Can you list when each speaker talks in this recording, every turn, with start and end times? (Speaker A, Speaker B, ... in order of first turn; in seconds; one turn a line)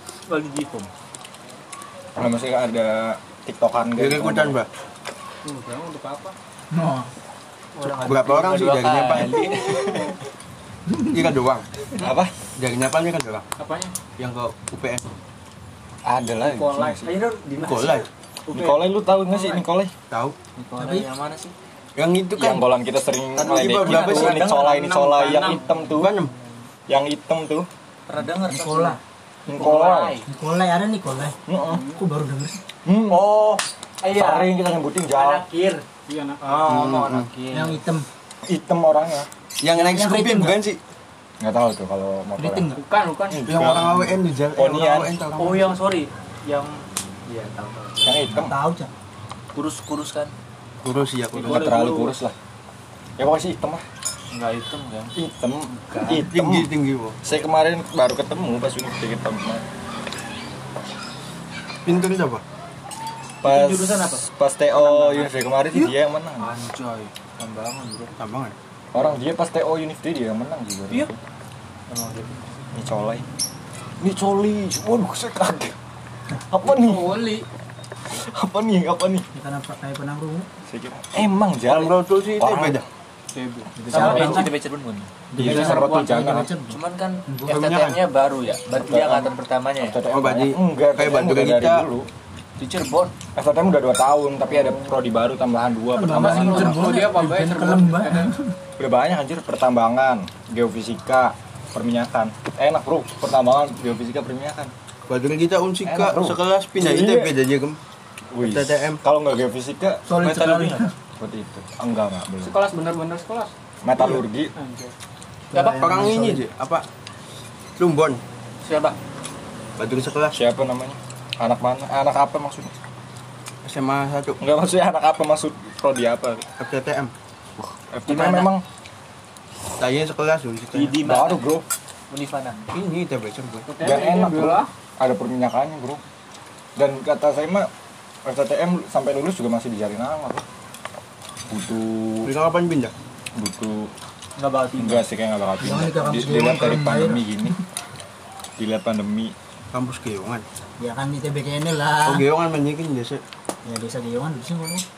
Speaker A: 0.3-0.9
Speaker B: 2.2-4.6
Speaker C: 4.0-4.7
Speaker D: 5.4-6.3
Speaker E: 6.7-7.1
Speaker A: 7.7-10.2
Speaker C: 8.0-9.6
Speaker C: 11.1-11.7
Speaker B: 12.0-12.3
Speaker C: 12.5-13.4
Speaker D: 13.6-13.9
Speaker C: 14.2-15.0
Speaker B: 16.0-17.1
Speaker D: 16.4-16.9
Speaker A: 16.8-19.6
Speaker C: 17.6-18.1
Speaker B: 18.5-19.9
Speaker C: 20.1-20.4
Speaker A: 20.6-21.5
Speaker E: 20.8-21.1
Speaker C: 21.9-22.6
Speaker B: 22.4-26.1
Speaker C: 23.3-24.4
Speaker A: 23.5-26.1
Speaker C: 26.0-26.3
Speaker B: 26.9-27.7
Speaker A: 28.1-30.3
Speaker E: 28.4-29.0
Speaker B: 29.4-30.2
Speaker E: 30.2-32.6
Speaker B: 31.5-31.8
Speaker B: 32.8-33.4
Speaker A: 33.1-34.5
Speaker B: 34.0-35.4
Speaker A: 35.1-35.8
Speaker D: 36.1-36.9
Speaker A: 36.4-37.8
Speaker C: 36.7-37.3
Speaker E: 37.5-38.1
Speaker B: 38.4-39.3
Speaker C: 39.6-40.8
Speaker E: 39.7-40.6
Speaker B: 41.4-42.7
Speaker E: 42.4-42.8
Speaker D: 42.7-43.8
Speaker B: 43.3-45.1
Speaker C: 43.4-45.8
Speaker A: 45.3-48.3
Speaker B: 48.0-48.5
Speaker E: 48.3-48.9
Speaker A: 49.5-50.3
Speaker C: 50.8-51.7
Speaker A: 51.3-52.1
Speaker B: 51.4-52.3
Speaker B: 53.2-53.8
Speaker A: 54.3-55.1
Speaker B: 55.1-56.7
Speaker A: 55.7-56.3
Speaker C: 56.3-57.2
Speaker B: 57.2-59.6
Speaker C: 61.8-62.4
Speaker B: 63.4-66.5
Speaker A: 63.4-68.1
Speaker C: 68.2-68.5
Speaker B: 68.9-71.2
Speaker A: 71.9-72.5
Speaker B: 72.7-73.2
Speaker B: 74.0-75.8
Speaker B: 76.5-77.2
Speaker D: 76.7-77.5
Speaker B: 78.0-79.2
Speaker E: 79.3-80.5
Speaker B: 80.6-82.8
Speaker C: 81.6-82.8
Speaker A: 83.3-86.1
Speaker E: 83.8-84.5
Speaker B: 83.9-84.5
Speaker E: 85.3-87.5
Speaker B: 85.3-86.5
Speaker A: 86.6-90.0
Speaker C: 87.5-88.0
Speaker B: 88.8-92.1
Speaker C: 90.0-91.8
Speaker A: 92.6-93.1
Speaker B: 93.3-96.9
Speaker E: 95.9-98.5
Speaker D: 96.1-98.3
Speaker B: 98.8-104.7
Speaker C: 105.1-107.8
Speaker B: 105.8-107.4
Speaker B: 108.3-110.0
Speaker C: 108.4-109.0
Speaker E: 110.1-110.9
Speaker A: 110.1-110.9
Speaker B: 111.2-112.6
Speaker D: 112.4-113.5
Speaker B: 113.8-114.5
Speaker D: 114.5-114.9
Speaker E: 115.5-116.4
Speaker D: 115.5-115.9
Speaker C: 115.8-116.8
Speaker C: 117.8-118.2
Speaker D: 118.6-119.0
Speaker C: 119.8-120.4
Speaker B: 120.3-122.7
Speaker C: 123.6-124.4
Speaker B: 124.4-126.5
Speaker C: 126.6-127.1
Speaker B: 127.6-128.6
Speaker A: 128.1-128.5
Speaker C: 129.8-131.0
Speaker A: 130.7-131.4
Speaker B: 131.0-131.6
Speaker A: 132.1-132.6
Speaker C: 132.7-133.7
Speaker D: 133.7-134.7
Speaker B: 133.8-136.0
Speaker B: 136.8-137.7
Speaker B: 138.2-140.4
Speaker B: 141.5-142.3
Speaker C: 142.2-142.9
Speaker B: 143.3-143.9
Speaker A: 144.4-145.0
Speaker B: 144.8-147.6
Speaker E: 145.6-147.6
Speaker B: 148.6-149.3
Speaker C: 149.7-150.4
Speaker E: 150.8-152.2
Speaker C: 152.0-153.2
Speaker E: 153.6-154.8